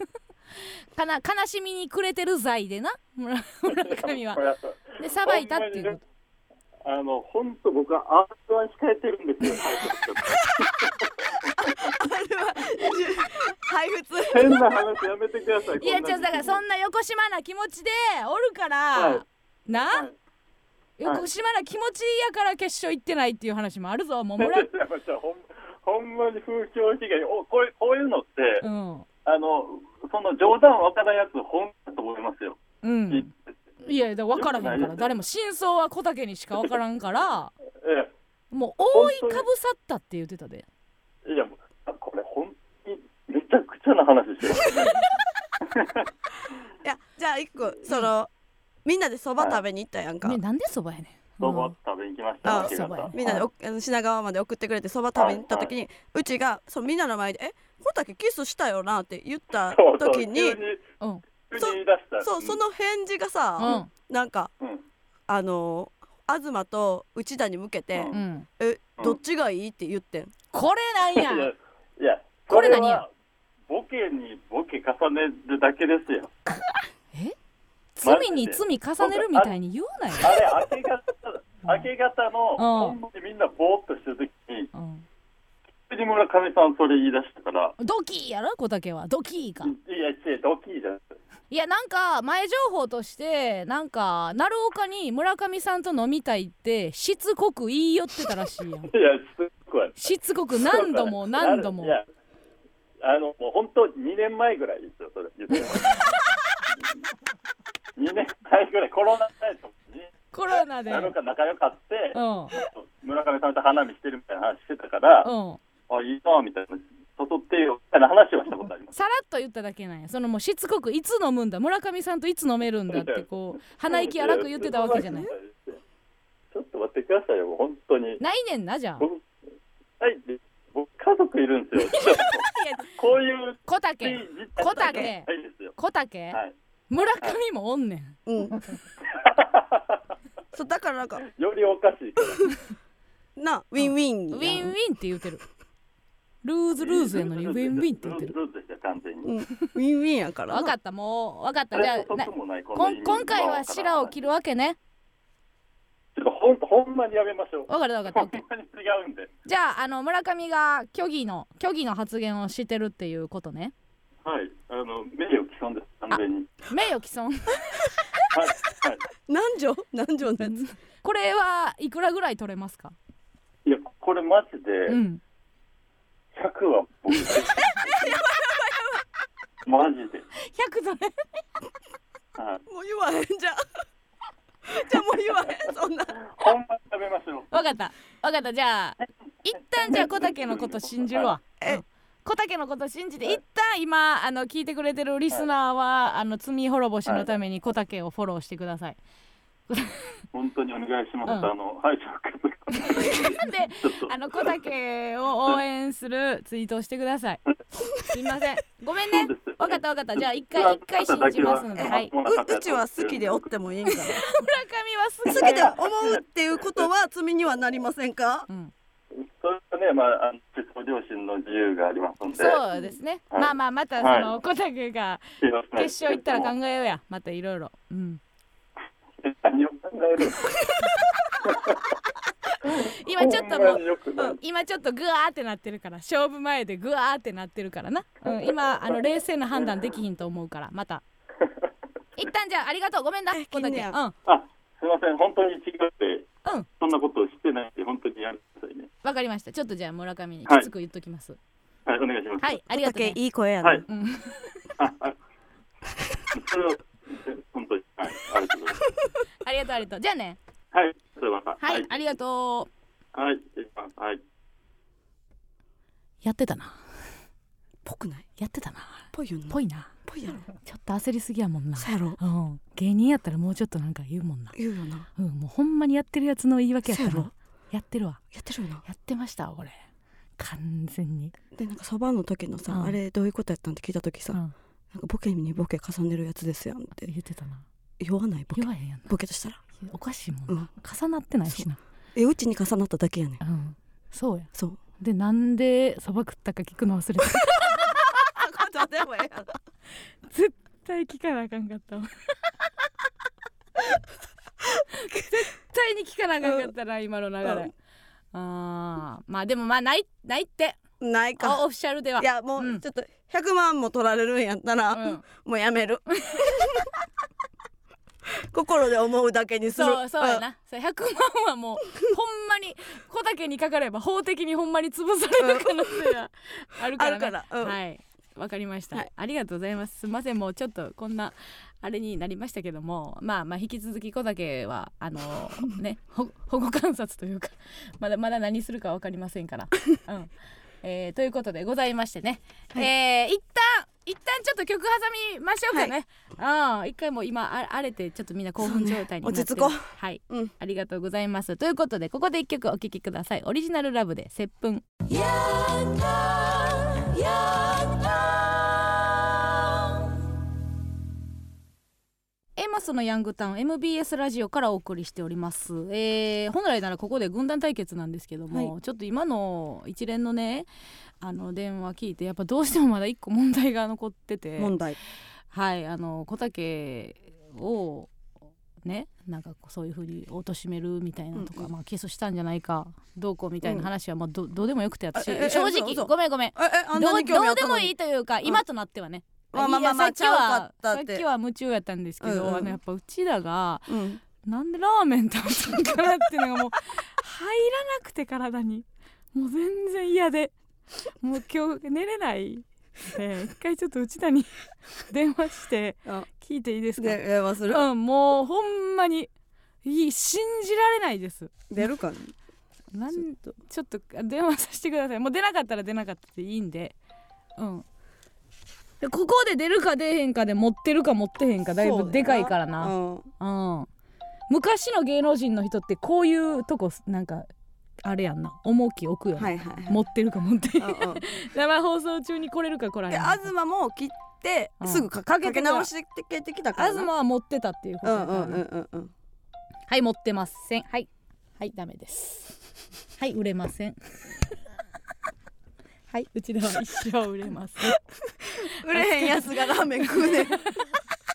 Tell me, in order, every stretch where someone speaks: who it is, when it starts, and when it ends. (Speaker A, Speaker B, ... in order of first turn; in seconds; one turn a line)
Speaker A: 0.9-4.4
Speaker B: 3.8-6.0
Speaker A: 5.0-6.0
Speaker B: 6.8-11.5
Speaker C: 11.6-14.7
Speaker B: 14.3-16.6
Speaker A: 15.8-20.1
Speaker B: 18.9-19.2
Speaker A: 21.0-24.7
Speaker B: 24.4-28.7
Speaker A: 28.6-29.1
Speaker B: 29.2-33.5
Speaker A: 32.8-33.3
Speaker A: 33.8-37.5
Speaker B: 34.4-35.1
Speaker B: 37.8-38.1
Speaker A: 38.5-40.7
Speaker B: 38.9-39.4
Speaker B: 41.2-45.0
Speaker B: 45.6-46.0
Speaker C: 46.8-48.3
Speaker C: 48.9-50.4
Speaker A: 50.2-51.7
Speaker B: 51.4-53.1
Speaker A: 52.4-53.5
Speaker C: 52.4-60.6
Speaker B: 55.2-55.7
Speaker B: 59.5-60.8
Speaker B: 61.5-62.6
Speaker C: 61.6-64.5
Speaker A: 63.6-63.9
Speaker C: 65.3-70.3
Speaker B: 67.9-68.2
Speaker A: 68.1-68.5
Speaker A: 70.5-71.5
Speaker B: 71.1-73.1
Speaker A: 72.5-73.0
Speaker B: 73.7-76.3
Speaker A: 78.0-80.4
Speaker B: 78.0-79.5
Speaker B: 80.2-84.7
Speaker A: 82.6-83.0
Speaker A: 84.7-85.0
Speaker B: 85.9-87.7
Speaker A: 87.8-89.7
Speaker B: 89.6-91.2
Speaker A: 91.5-98.9
Speaker B: 98.9-100.0
Speaker A: 100.0-102.0
Speaker B: 100.6-102.1
Speaker B: 103.0-106.0
Speaker B: 108.0-110.1
Speaker A: 110.3-111.1
Speaker B: 110.9-115.3
Speaker A: 112.1-112.5
Speaker A: 115.2-115.6
Speaker B: 115.9-118.9
Speaker A: 118.9-125.3
Speaker B: 122.9-125.8
Speaker B: 126.5-128.2
Speaker A: 128.2-129.1
Speaker B: 129.0-129.2
Speaker B: 130.0-135.7
Speaker A: 131.8-132.9
Speaker A: 133.7-136.4
Speaker C: 134.7-135.1
Speaker A: 136.9-138.2
Speaker C: 138.3-138.6
Speaker B: 139.1-140.0
Speaker C: 140.6-141.2
Speaker B: 141.2-142.6
Speaker C: 143.4-144.7
Speaker A: 144.3-145.4
Speaker A: 146.4-148.3
Speaker B: 146.8-149.3
Speaker C: 149.2-150.7
Speaker A: 150.5-154.8
Speaker B: 151.7-154.1
Speaker B: 156.1-159.3
Speaker A: 157.7-158.4
Speaker A: 159.5-163.7
Speaker B: 164.2-166.6
Speaker A: 166.1-167.9
Speaker B: 168.3-169.0
Speaker C: 169.3-170.6
Speaker A: 170.4-172.9
Speaker B: 173.6-175.0
Speaker A: 174.9-175.2
Speaker B: 176.3-177.8
Speaker A: 177.1-177.5
Speaker C: 178.0-179.0
Speaker B: 179.6-180.3
Speaker A: 180.4-181.2
Speaker B: 182.4-182.6
Speaker C: 182.7-183.6
Speaker C: 184.7-186.2
Speaker B: 186.3-187.5
Speaker A: 187.5-199.0
Speaker B: 189.8-191.4
Speaker A: 199.7-200.1
Speaker B: 200.3-204.1
Speaker A: 201.2-201.5
Speaker A: 202.8-207.4
Speaker A: 208.1-212.1
Speaker B: 209.1-213.5
Speaker C: 211.8-214.2
Speaker A: 213.9-215.8
Speaker C: 215.3-218.5
Speaker B: 215.3-216.9
Speaker B: 219.2-222.6
Speaker A: 222.3-228.2
Speaker B: 223.3-224.3
Speaker B: 225.4-226.5
Speaker B: 229.2-230.4
Speaker B: 231.4-231.8
Speaker B: 232.6-234.4
Speaker A: 232.7-241.0
Speaker A: 242.2-244.1
Speaker C: 243.3-243.9
Speaker B: 244.3-246.3
Speaker B: 246.8-248.9
Speaker A: 249.0-251.4
Speaker B: 251.9-252.5
Speaker A: 252.4-253.2
Speaker C: 252.7-253.8
Speaker A: 253.9-254.4
Speaker B: 254.8-255.2
Speaker B: 256.3-258.8
Speaker A: 259.4-260.4
Speaker B: 260.7-261.9
Speaker A: 261.6-262.7
Speaker B: 263.1-264.2
Speaker A: 266.2-266.8
Speaker C: 267.9-268.3
Speaker A: 268.4-269.9
Speaker C: 269.1-270.4
Speaker A: 270.5-274.6
Speaker C: 271.8-272.2
Speaker C: 274.6-275.1
Speaker A: 275.2-278.2
Speaker C: 276.9-277.3
Speaker C: 278.3-278.8
Speaker A: 278.9-279.8
Speaker A: 280.4-281.3
Speaker C: 281.6-284.4
Speaker A: 282.7-283.0
Speaker C: 284.9-287.1
Speaker A: 287.1-287.6
Speaker C: 288.0-289.6
Speaker A: 288.5-289.1
Speaker A: 289.8-291.8
Speaker C: 291.5-293.4
Speaker A: 293.4-298.2
Speaker C: 298.4-299.5
Speaker A: 300.3-302.9
Speaker A: 304.9-307.7
Speaker C: 306.4-306.7
Speaker A: 308.3-310.8
Speaker C: 311.0-311.6
Speaker A: 311.4-312.8
Speaker C: 312.2-316.9
Speaker A: 314.9-315.2
Speaker A: 316.2-316.6
Speaker C: 318.5-320.4
Speaker A: 319.7-358.2
Speaker C: 325.4-326.1
Speaker C: 327.0-327.8
Speaker C: 348.6-350.5
Speaker A: 362.6-370.7
Speaker A: 371.2-374.7
Speaker C: 374.6-375.0
Speaker A: 375.5-378.1
Speaker A: 378.8-393.9
Speaker C: 381.4-381.7
Speaker C: 383.6-383.9
Speaker C: 385.1-387.9
Speaker C: 389.5-391.2
Speaker C: 392.2-392.8
Speaker C: 393.9-394.2
Speaker A: 394.4-400.5
Speaker A: 401.2-404.5
Speaker A: 405.1-409.3
Speaker C: 407.0-407.9
Speaker A: 409.8-411.6
Speaker C: 411.7-412.3
Speaker A: 412.9-416.9
Speaker C: 413.1-413.6
Speaker A: 417.6-417.9
Speaker A: 419.0-423.9
Speaker C: 421.8-423.3
Speaker A: 424.5-427.5
Speaker A: 428.0-433.5
Speaker C: 429.4-430.0
Speaker C: 430.8-431.2
Speaker C: 433.1-437.1
Speaker A: 434.8-435.9
Speaker A: 436.8-438.6
Speaker C: 438.0-439.1
Speaker A: 439.9-442.6
Speaker A: 443.2-444.6
Speaker A: 446.1-448.0
Speaker C: 448.6-450.7
Speaker A: 448.9-450.9